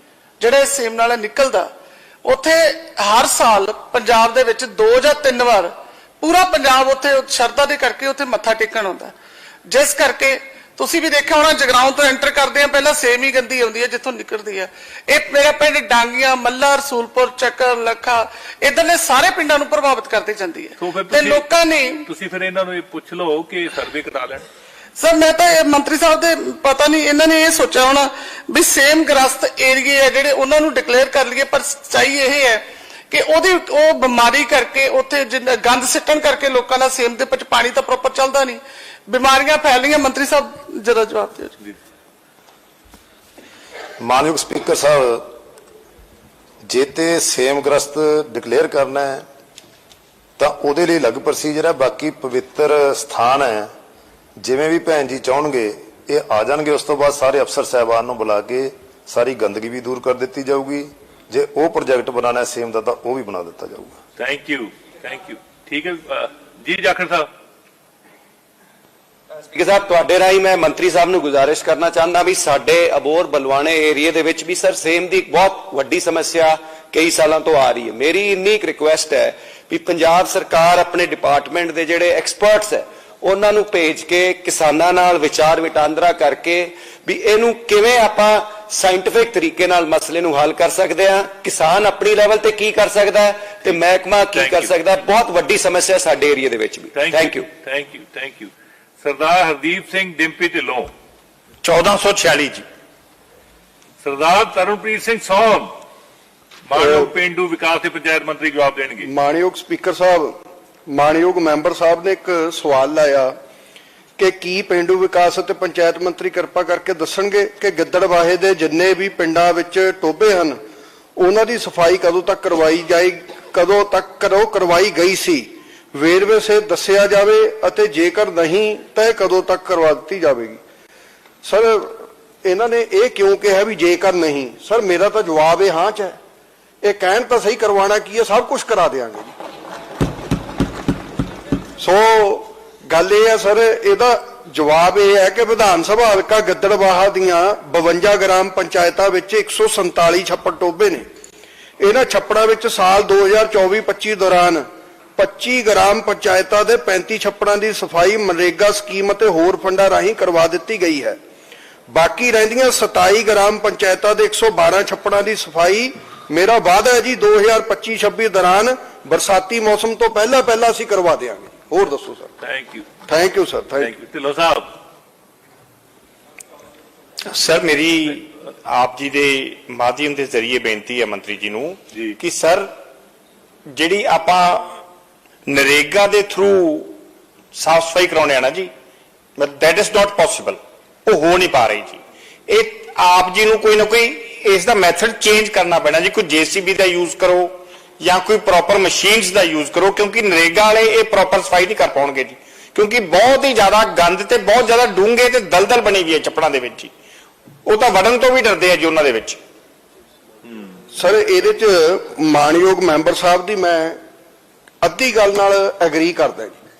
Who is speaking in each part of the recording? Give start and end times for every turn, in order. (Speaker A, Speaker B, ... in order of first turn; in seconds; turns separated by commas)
Speaker A: 0.4-1.7, Speaker A: 2.2-9.1, Speaker A: 9.7-22.1, Speaker B: 20.8-21.4, Speaker B: 22.1-24.4, Speaker A: 25.0-41.5, Speaker C: 44.0-45.3, Speaker C: 46.6-49.2, Speaker C: 50.4-53.7, Speaker C: 54.4-64.0, Speaker B: 64.2-67.3, Speaker D: 69.5-97.5, Speaker B: 94.3-94.7, Speaker B: 96.9-100.9, Speaker E: 101.6-102.6, Speaker B: 104.0-105.7, Speaker B: 106.7-109.0, Speaker F: 106.7-107.1, Speaker F: 109.0-113.3, Speaker F: 114.2-120.6, Speaker F: 121.2-130.6, Speaker F: 131.4-136.2, Speaker F: 136.8-139.3, Speaker F: 141.8-151.0, Speaker F: 151.8-154.6, Speaker F: 155.2-161.2, Speaker F: 161.9-172.3, Speaker B: 172.4-172.8, Speaker F: 173.1-173.9, Speaker B: 173.8-174.7, Speaker E: 177.2-182.7, Speaker E: 183.7-184.8, Speaker E: 185.4-187.0, Speaker E: 187.5-188.7, Speaker E: 189.4-206.9, Speaker E: 207.6-209.4, Speaker F: 210.9-214.0, Speaker F: 214.8-216.6